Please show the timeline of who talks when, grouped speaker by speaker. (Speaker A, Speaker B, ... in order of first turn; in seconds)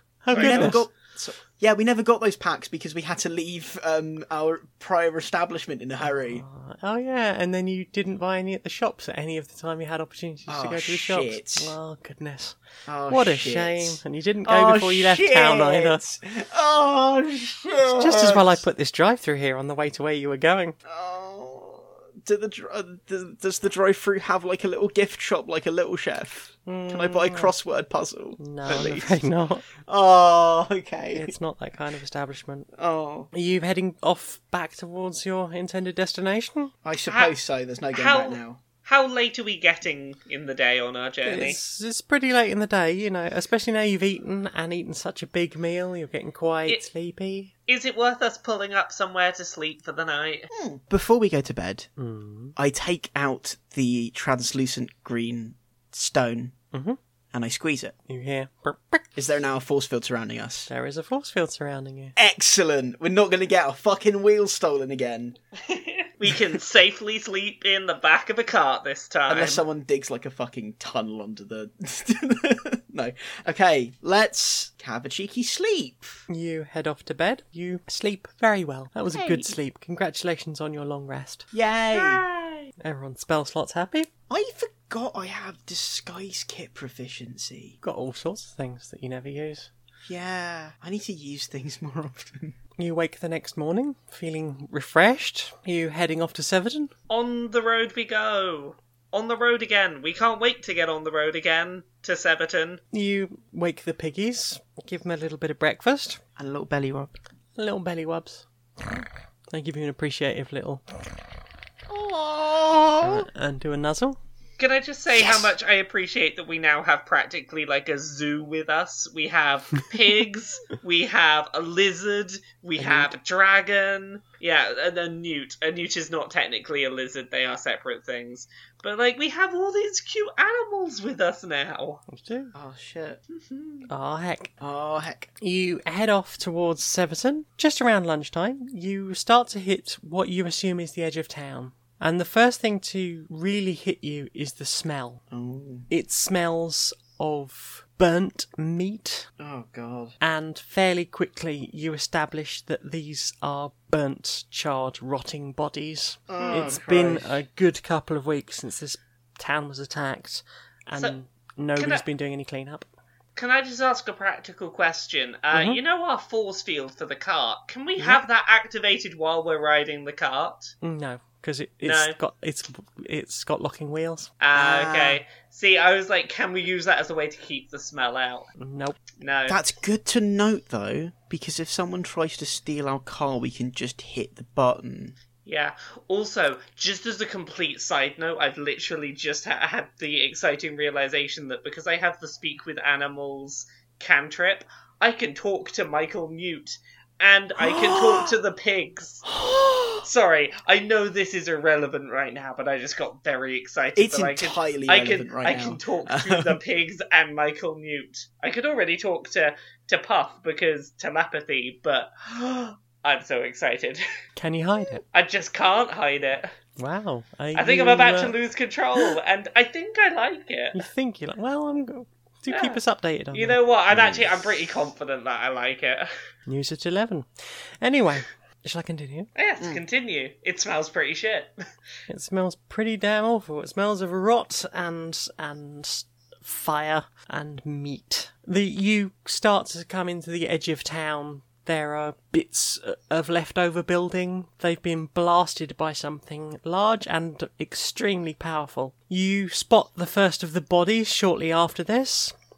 Speaker A: 0.2-0.8, 6.3-16.0, 17.9-20.8, 26.7-27.5, 28.4-29.7, 31.1-32.7, 33.3-36.7, 41.2-47.5, 52.0-52.6, 56.7-57.0, 58.1-59.1, 60.7-62.1, 76.3-81.5, 82.8-84.1, 87.8-89.7, 92.8-96.9, 102.9-106.2, 107.6-108.5, 109.5-110.8, 113.0-114.2, 132.1-132.5, 133.9-134.5, 135.4-145.2, 145.9-149.3, 150.2-162.9, 165.5-165.8, 170.8-174.3, 178.6-179.0, 214.4-215.0, 216.8-218.3, 220.7-223.6, 226.5-229.3, 232.1-252.3
Speaker B: 0.3-0.8, 37.1-37.4, 37.9-41.6, 47.7-50.5, 65.6-69.6, 81.9-82.7, 97.1-102.8, 114.6-132.0, 133.3-133.9, 156.4-156.8, 161.8-162.0, 163.4-170.7, 171.8-172.2, 174.4-178.5, 179.2-179.6, 185.4-199.3, 200.0-214.0, 215.1-216.5, 217.6-220.8, 222.5-222.8, 223.3-226.1, 229.4-231.5
Speaker C: 0.3-6.4, 10.5-11.7, 12.9-18.6, 20.9-29.2, 29.8-31.4, 32.7-33.3, 36.8-38.6, 50.5-51.9, 52.6-56.5, 57.3-58.0, 59.2-60.7, 62.2-65.4, 69.3-76.2, 79.1-79.5, 81.5-82.2, 84.3-87.8, 90.1-92.6, 106.4-107.1, 111.9-113.3, 115.1-115.5, 122.8-123.1, 132.6-133.2, 134.6-135.3, 145.3-145.9, 149.4-150.2, 156.3-157.4, 174.6-175.2, 179.5-185.2, 197.6-198.3, 199.2-200.1, 204.0-206.6, 223.9-224.4